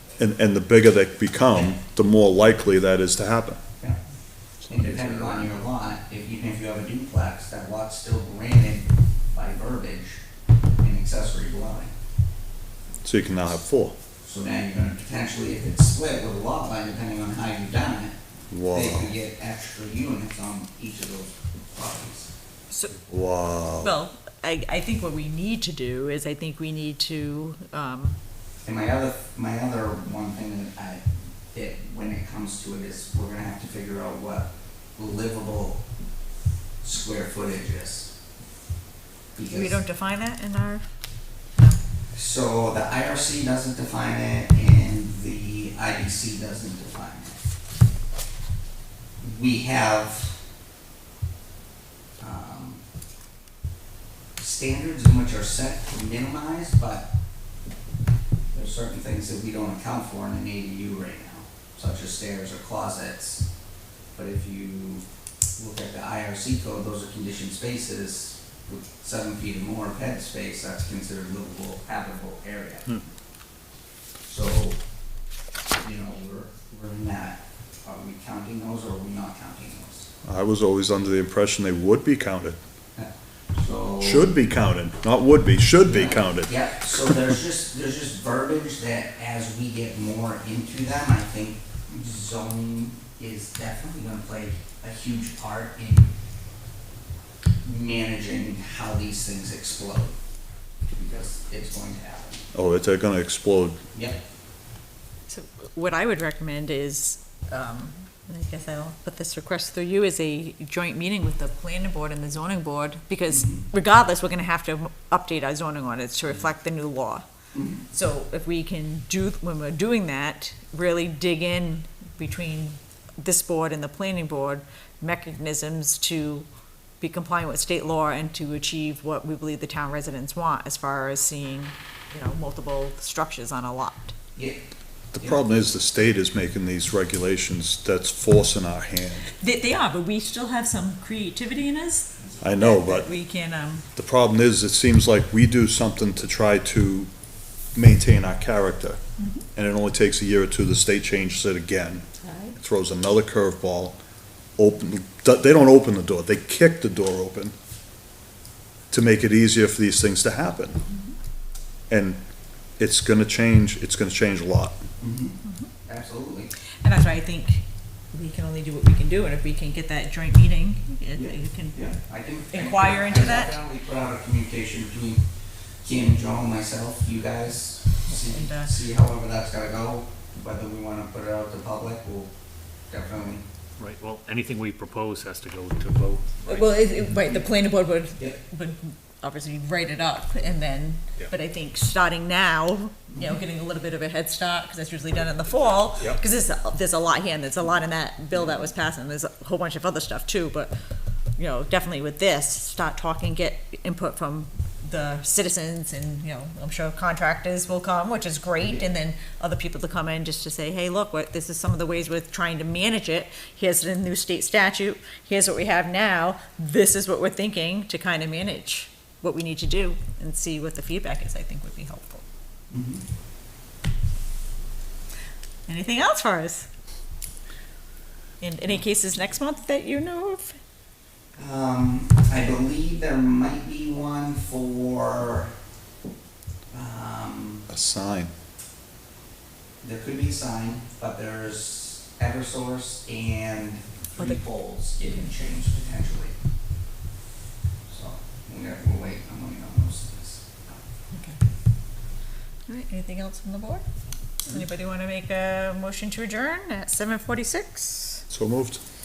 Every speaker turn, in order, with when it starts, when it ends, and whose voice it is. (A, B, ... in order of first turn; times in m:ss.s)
0:00.2-0:03.6 A
0:04.6-0:05.5 A
0:04.7-0:10.2 B
0:10.8-0:11.9 B
0:13.0-0:14.0 A
0:14.2-0:18.2 B
0:18.5-0:19.1 A
0:18.7-0:22.3 B
0:22.7-0:23.0 C
0:23.1-0:23.9 A
0:23.8-0:28.2 C
0:28.6-0:35.8 B
0:36.8-0:38.1 B
0:39.3-0:39.8 B
0:39.5-0:40.9 C
0:42.1-0:47.4 B
0:49.2-0:50.4 B
0:52.2-0:52.8 B
0:54.4-0:57.1 B
0:58.5-1:03.4 B
1:04.2-1:05.0 B
1:05.6-1:13.0 B
1:14.2-1:14.8 B
1:15.8-1:20.1 B
1:20.2-1:22.6 A
1:23.0-1:24.3 B
1:24.0-1:26.5 A
1:25.8-1:36.1 B
1:37.6-1:40.2 B
1:40.9-1:42.5 B
1:42.5-1:43.8 A
1:43.9-1:44.2 B
1:45.3-1:57.2 C
1:53.3-1:53.7 B
1:57.5-1:57.8 B
1:57.9-2:06.5 C
2:07.0-2:14.1 C
2:15.1-2:19.3 A
2:19.4-2:23.8 C
2:22.4-2:23.1 A
2:24.0-2:27.1 A
2:27.7-2:29.0 A
2:29.2-2:29.4 C
2:29.6-2:32.0 A
2:32.2-2:32.6 C
2:32.6-2:34.0 A
2:34.6-2:37.5 A
2:38.9-2:40.8 A
2:41.9-2:42.2 A
2:42.8-2:44.8 A
2:45.0-2:46.5 B
2:46.8-2:51.9 C
2:51.1-2:55.2 B
2:52.5-2:53.5 C
2:55.8-3:02.3 B
2:58.1-2:58.7 C
3:02.9-3:03.4 B
3:03.8-3:06.7 D
3:06.5-3:20.7 C
3:13.1-3:13.4 B
3:18.3-3:18.6 B
3:21.4-3:42.2 C
3:42.7-3:43.0 B
3:45.7-3:46.7 C
3:48.4-3:50.6 C
3:51.4-3:55.5 B
3:56.7-3:57.7 B
3:57.7-3:58.3 A
3:59.8-4:06.4 B
4:07.9-4:10.8 B
4:11.1-4:11.4 C
4:12.7-4:13.8 C
4:14.4-4:18.2 C
4:18.3-4:18.8 A